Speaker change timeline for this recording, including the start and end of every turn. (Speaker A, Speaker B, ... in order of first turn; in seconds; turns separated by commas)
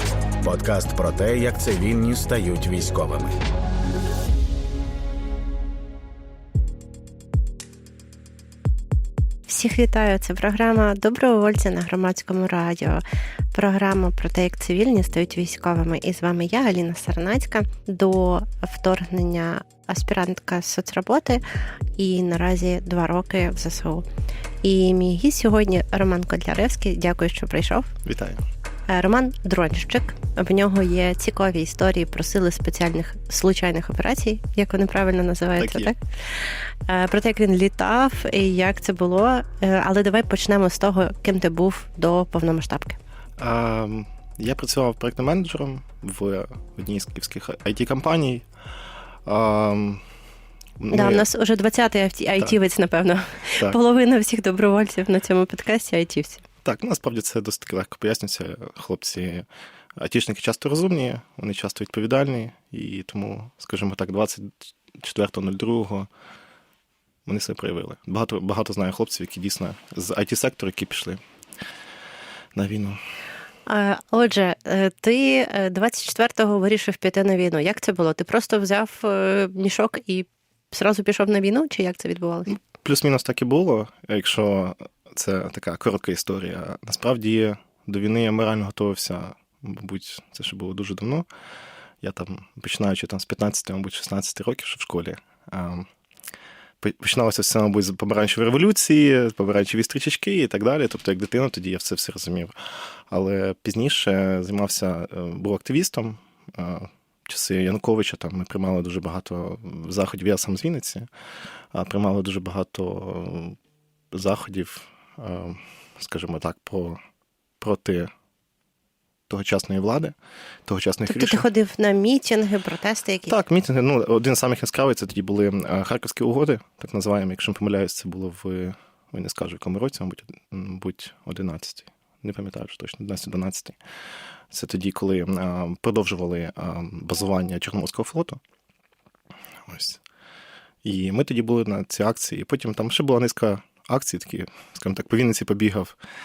Speaker A: 0.4-3.4, Speaker B: 9.5-13.0, Speaker B: 13.5-21.4, Speaker B: 22.0-24.1, Speaker B: 24.6-27.9, Speaker C: 28.0-28.4, Speaker B: 28.9-43.0, Speaker C: 35.6-35.9, Speaker C: 43.4-48.5, Speaker C: 49.2-50.0, Speaker C: 50.8-51.2, Speaker B: 50.9-56.4, Speaker C: 56.6-66.1, Speaker C: 67.2-71.2, Speaker C: 72.5-73.0, Speaker B: 73.7-82.5, Speaker C: 82.5-91.2, Speaker C: 92.0-95.9, Speaker C: 96.8-102.5, Speaker C: 103.1-111.1, Speaker C: 111.7-113.6, Speaker C: 114.1-117.0, Speaker C: 117.6-118.1, Speaker C: 119.3-120.1, Speaker C: 120.7-121.4, Speaker B: 121.0-123.3, Speaker C: 123.3-133.8, Speaker C: 134.5-138.4, Speaker C: 139.7-140.0, Speaker C: 140.8-145.9